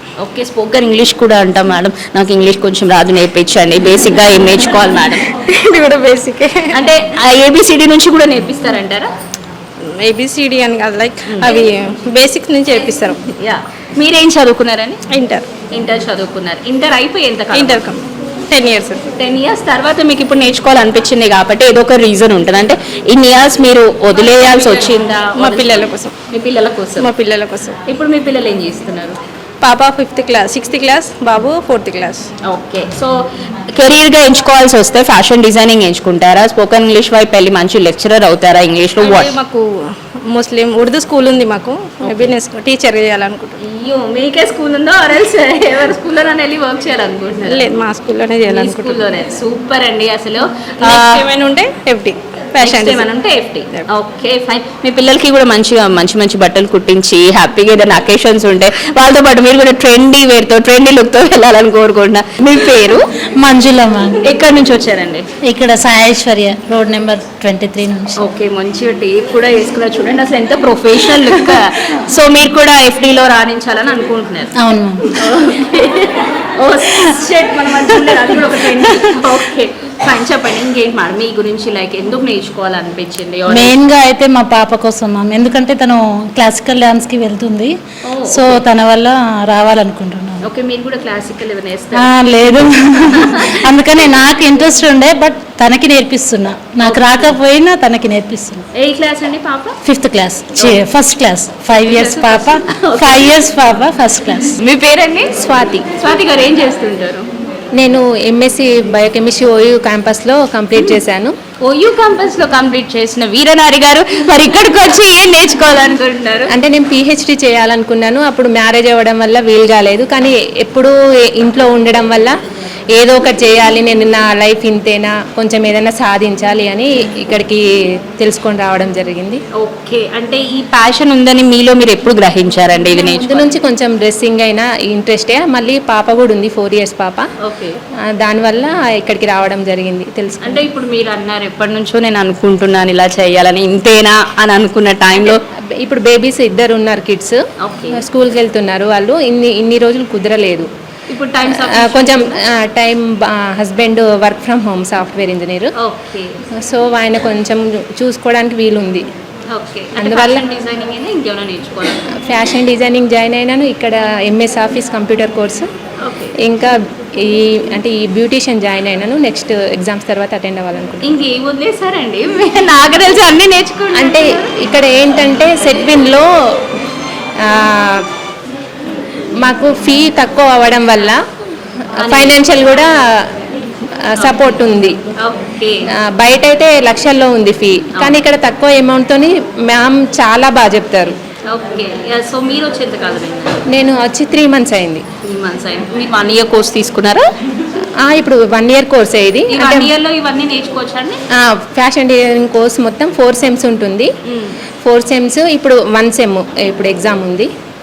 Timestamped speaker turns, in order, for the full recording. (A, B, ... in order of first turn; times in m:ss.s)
0:00.2-0:05.3 A
0:05.5-0:06.9 B
0:06.7-0:09.1 A
0:09.8-0:13.2 B
0:11.3-0:11.7 A
0:13.4-0:15.0 A
0:15.1-0:15.5 B
0:15.7-0:17.9 A
0:17.5-0:19.1 B
0:19.1-0:27.1 A
0:24.3-0:26.1 B
0:27.0-0:27.8 B
0:27.9-0:29.2 A
0:29.6-0:32.3 B
0:32.5-0:33.1 A
0:33.8-0:39.4 A
0:39.0-0:43.6 B
0:42.0-0:42.3 A
0:43.6-0:47.7 A
0:47.4-0:49.0 B
0:48.4-0:51.3 A
0:50.8-0:53.1 B
0:52.6-1:03.0 A
1:03.4-1:04.3 C
1:04.2-1:05.2 A
1:05.4-1:08.2 C
1:08.2-1:14.5 A
1:14.6-1:15.0 C
1:15.1-1:23.8 A
1:23.5-1:27.7 C
1:28.0-1:28.6 A
1:28.3-1:30.4 C
1:30.4-1:32.1 A
1:31.9-1:38.6 C
1:33.1-1:33.6 A
1:36.8-1:37.4 A
1:38.7-1:39.8 A
1:39.8-1:44.6 C
1:40.6-1:40.8 A
1:41.8-1:43.4 A
1:44.6-1:45.3 A
1:45.4-1:45.8 D
1:45.8-1:47.3 A
1:47.8-1:51.3 D
1:51.6-1:56.5 A
1:56.5-2:02.4 D
2:02.9-2:07.6 D
2:08.2-2:09.4 D
2:09.6-2:13.5 A
2:12.9-2:17.3 D
2:17.4-2:17.8 A
2:18.2-2:20.6 D
2:20.4-2:25.4 A
2:25.2-2:27.4 D
2:27.6-2:28.0 A
2:27.9-2:30.7 D
2:31.1-2:32.4 A
2:31.5-2:35.7 D
2:35.8-2:36.4 A
2:36.6-2:39.0 D
2:39.5-2:42.0 A
2:40.0-2:40.4 D
2:42.2-2:45.7 D
2:46.0-2:46.3 A
2:46.4-2:51.1 D
2:51.1-2:54.5 A
2:54.0-2:56.6 D
2:57.5-2:58.0 D
2:59.4-3:01.2 D
3:02.0-3:03.2 D
3:02.0-3:02.4 A
3:04.0-3:05.0 D
3:04.2-3:04.6 A
3:05.2-3:05.8 A
3:06.1-3:11.1 D
3:11.5-3:13.6 A
3:13.7-3:15.0 D
3:15.2-3:17.2 A
3:18.0-3:19.9 D
3:19.5-3:21.2 A
3:21.4-3:24.1 D
3:24.3-3:24.5 A
3:24.8-3:27.5 D